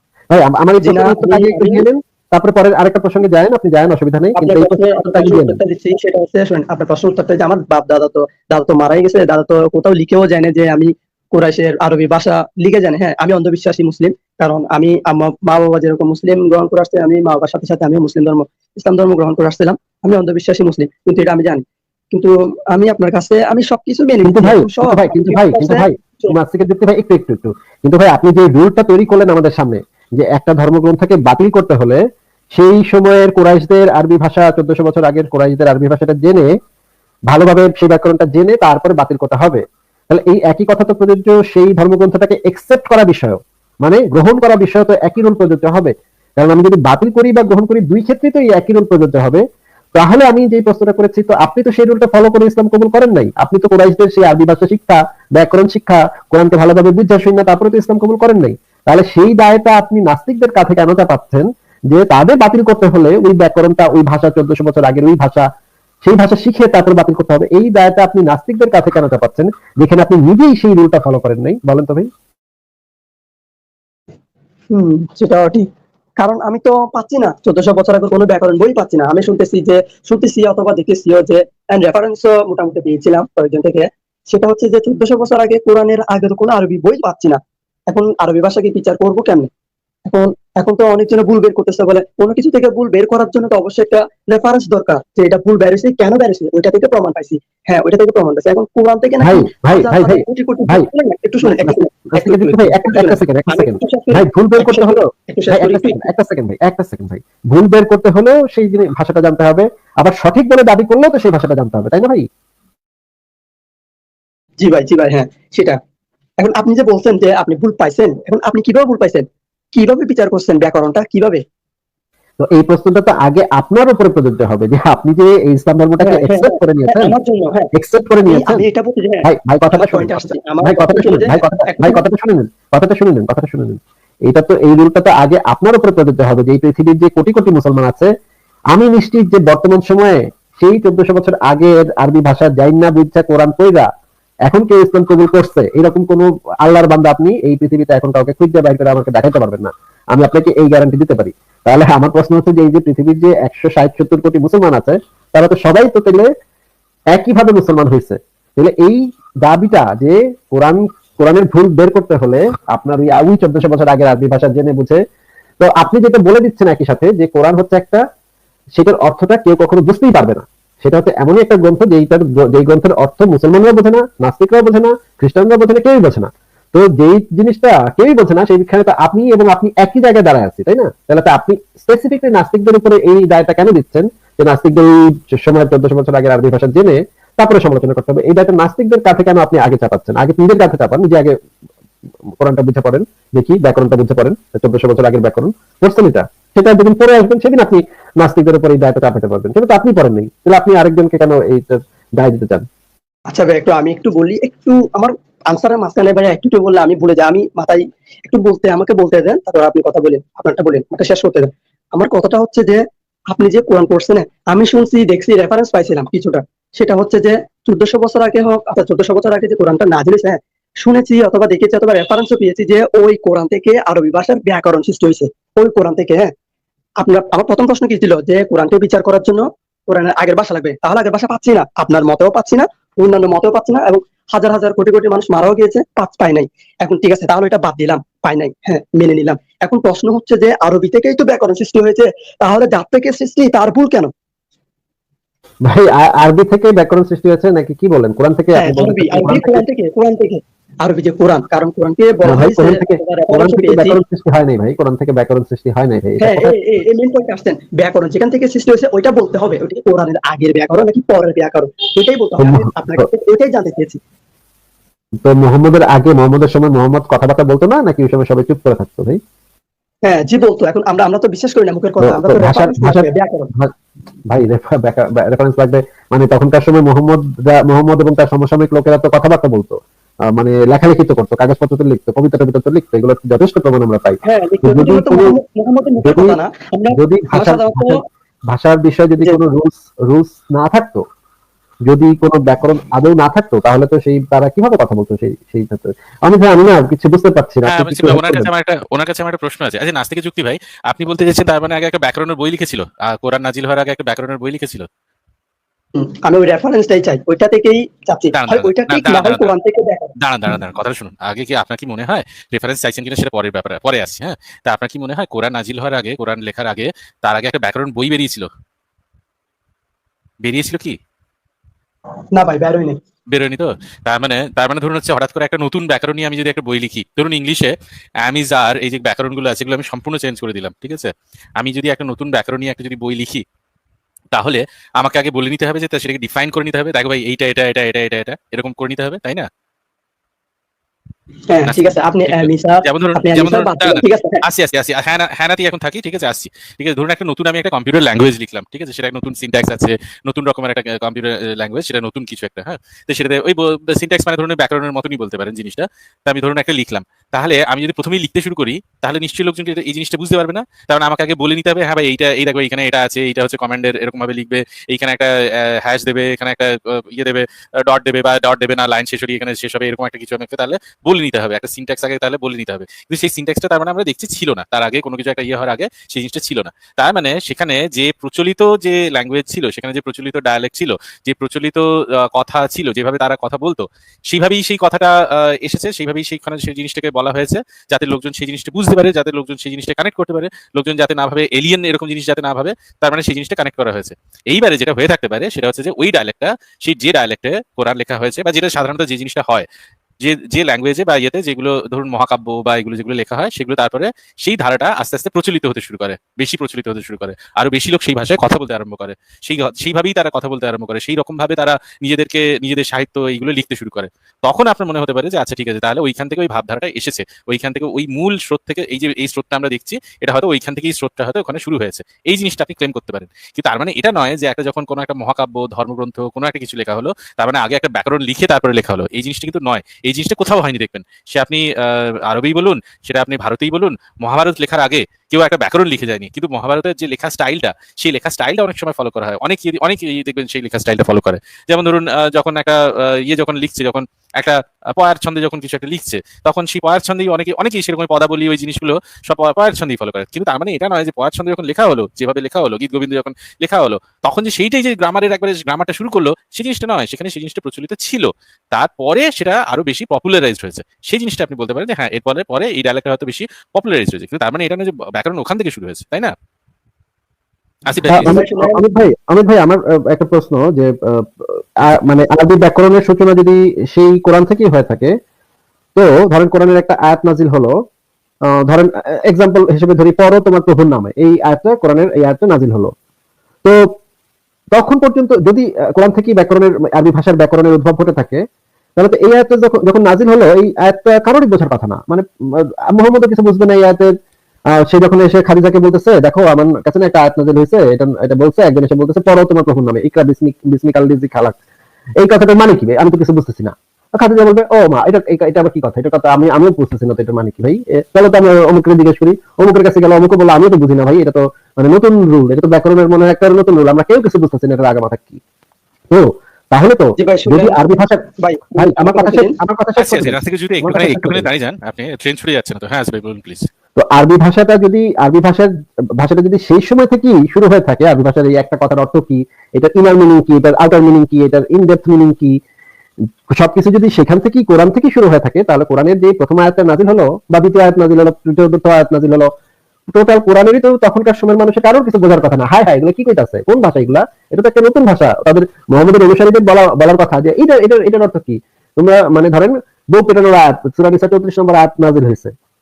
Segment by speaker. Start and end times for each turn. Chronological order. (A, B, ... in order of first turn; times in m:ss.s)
0:00.3-0:05.6 A
0:00.8-0:01.8 B
0:04.3-0:26.4 B
0:24.2-0:32.0 A
0:32.5-0:36.5 A
0:37.3-0:49.4 A
0:49.9-1:05.5 A
1:06.0-1:12.1 A
1:14.7-1:15.7 B
1:16.2-1:29.5 B
1:30.1-1:46.0 B
1:39.2-1:40.8 A
1:41.4-1:52.3 A
1:54.6-1:55.8 B
1:56.4-2:01.4 B
2:02.4-2:07.1 A
2:06.0-2:07.7 B
2:07.7-2:08.6 A
2:08.3-2:12.0 B
2:09.2-2:18.1 A
2:18.7-2:23.9 A
2:24.4-2:36.3 A
2:37.1-2:45.0 A
2:45.6-2:48.0 A
2:48.8-3:11.4 A
3:12.4-3:22.6 A
3:23.3-3:46.3 B
3:47.0-4:04.1 B
4:05.6-4:09.6 A
4:08.6-4:14.0 B
4:12.2-4:16.5 A
4:16.2-4:24.0 B
4:22.4-4:23.0 A
4:25.2-4:29.2 A
4:30.0-4:33.5 B
4:32.0-4:33.7 A
4:34.3-4:39.8 A
4:40.3-4:45.3 A
4:44.2-4:48.0 B
4:46.0-4:46.4 A
4:46.9-4:51.0 A
4:51.9-4:58.5 A
4:57.7-5:04.9 C
5:06.0-5:10.1 B
5:08.3-5:09.5 C
5:10.2-5:18.5 C
5:20.4-5:21.0 C
5:22.3-5:23.0 B
5:23.3-5:33.4 C
5:34.3-5:39.5 C
5:41.5-5:44.4 B
5:41.6-6:39.6 C
6:40.2-7:46.3 C
7:47.9-7:48.4 C
7:48.1-7:55.1 A
7:48.2-7:48.8 B
7:55.9-7:57.7 A
7:58.6-8:02.9 A
8:04.7-8:08.4 A
8:09.0-8:14.1 A
8:14.8-8:21.6 A
8:22.2-8:35.4 A
8:36.1-8:38.2 A
8:37.2-8:39.5 B
8:38.8-8:41.5 A
8:40.0-8:43.7 C
8:44.0-8:52.6 A
8:53.5-8:59.5 A
9:00.1-9:12.5 A